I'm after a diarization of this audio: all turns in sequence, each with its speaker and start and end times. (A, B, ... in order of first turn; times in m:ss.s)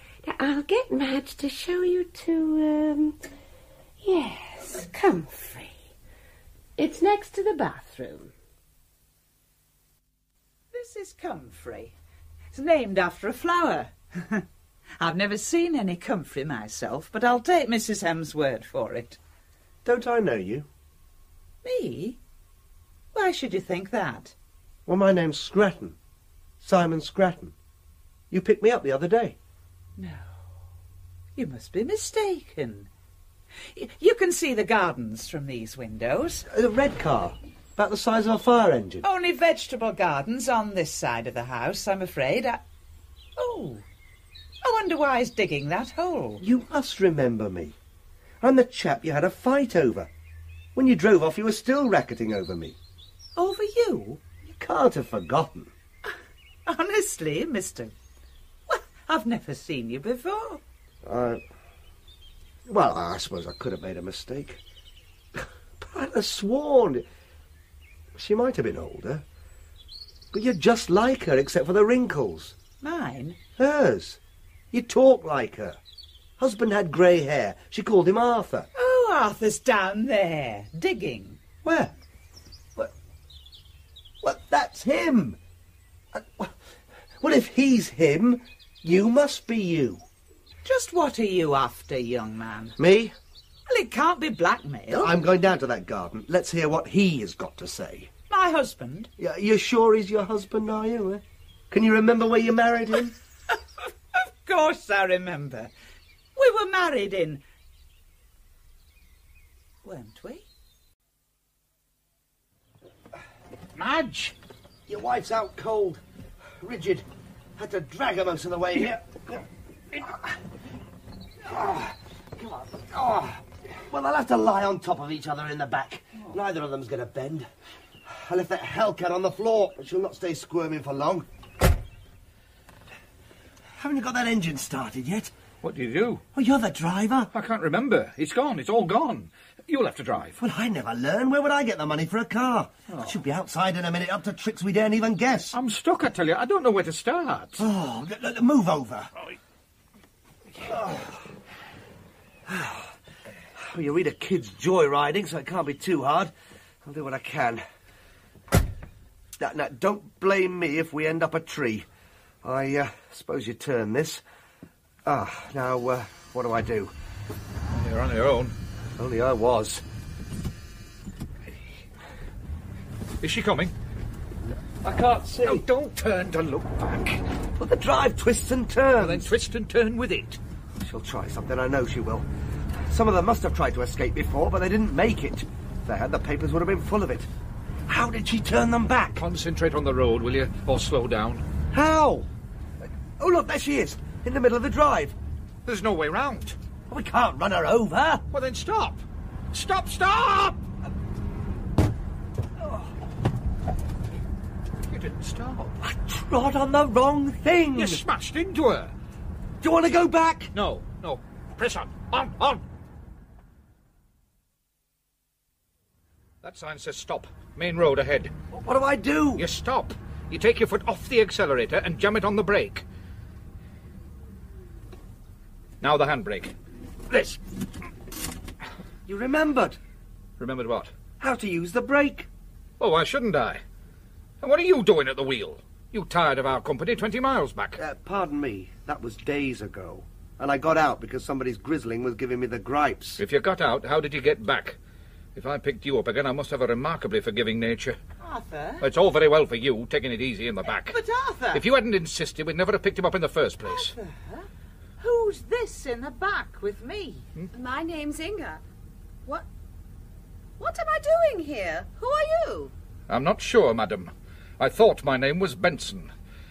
0:00.2-0:03.2 A
0:04.0-0:05.8 A
0:06.8-0:08.3 A
0:10.7-0:11.9 B
0:12.5-0:14.4 B
0:15.0-0:19.2 B
0:19.8-0:20.7 C
0:21.6-0:22.2 B
0:23.1-0:24.3 B
0:24.8-0:26.0 C
0:26.6-0:27.5 C
0:28.3-0:29.4 C
0:30.0-0:30.3 B
0:31.4-0:32.9 B
0:33.7-0:36.4 B
0:36.5-0:39.0 C
0:39.0-0:42.6 B
0:43.4-0:43.8 B
0:44.6-0:46.4 B
0:46.4-0:47.8 C
0:48.4-0:50.1 C
0:50.7-0:52.8 C
0:53.4-0:54.2 B
0:54.4-0:55.7 C
0:56.6-0:57.9 B
0:58.7-1:00.6 B
1:01.0-1:01.4 C
1:02.6-1:04.6 C
1:05.3-1:07.0 C
1:08.1-1:09.2 C
1:10.3-1:12.6 C
1:12.8-1:13.4 B
1:13.6-1:14.2 C
1:14.7-1:15.8 C
1:16.4-1:18.7 C
1:18.7-1:21.4 B
1:21.6-1:21.9 C
1:24.2-1:25.4 C
1:26.1-1:26.5 C
1:27.2-1:30.0 C
1:30.6-1:32.8 B
1:32.8-1:33.1 C
1:33.7-1:35.1 B
1:34.9-1:38.1 C
1:38.3-1:39.1 B
1:39.2-1:43.1 C
1:44.1-1:45.7 B
1:46.4-1:47.4 B
1:49.8-1:50.4 B
1:53.8-1:54.3 D
1:54.9-1:56.0 C
1:56.6-1:57.0 C
1:57.6-2:00.3 C
2:01.4-2:07.5 C
2:08.0-2:11.2 C
2:13.8-2:15.3 C
2:15.6-2:16.2 D
2:16.3-2:17.3 C
2:17.3-2:20.4 D
2:20.4-2:25.6 C
2:25.5-2:27.6 D
2:27.6-2:29.1 C
2:30.6-2:31.0 C
2:32.4-2:32.9 C
2:33.6-2:36.3 C
2:36.8-2:37.6 C
2:39.4-2:41.9 C
2:42.4-2:44.2 C
2:45.0-2:46.9 C
2:47.7-2:48.5 D
2:49.0-2:49.8 C
2:53.2-2:53.7 D
2:54.8-2:55.6 C
2:54.8-2:57.2 D
2:57.6-2:59.3 C
2:59.0-3:00.4 D
3:00.8-3:02.3 C
3:02.9-3:07.3 C
3:07.9-3:09.2 C
3:09.2-3:11.4 D
3:11.7-3:12.3 C
3:13.2-3:15.1 C
3:15.6-3:16.6 D
3:16.9-3:18.2 C
3:18.3-3:20.6 D
3:24.9-3:25.8 D
3:25.8-3:28.0 C
3:27.7-3:28.9 D
3:29.6-3:30.5 C
3:30.5-3:32.6 D
3:36.4-3:38.3 D
3:38.5-3:39.4 C
3:39.4-3:42.8 D
3:45.8-3:46.5 D
3:47.1-3:47.4 D
3:49.1-3:49.8 C
3:50.4-3:50.9 D
3:51.2-3:52.3 C
3:52.8-3:53.6 D
3:54.4-3:57.8 D
3:57.8-4:03.2 C
4:03.2-4:04.8 D
4:05.3-4:08.0 D
4:08.2-4:08.8 B
4:08.8-4:11.0 D
4:10.6-4:11.6 B
4:11.5-4:13.9 D
4:13.6-4:14.5 B
4:15.0-4:17.3 B
4:17.5-4:18.6 E
4:20.6-4:22.7 E
4:23.1-4:26.1 D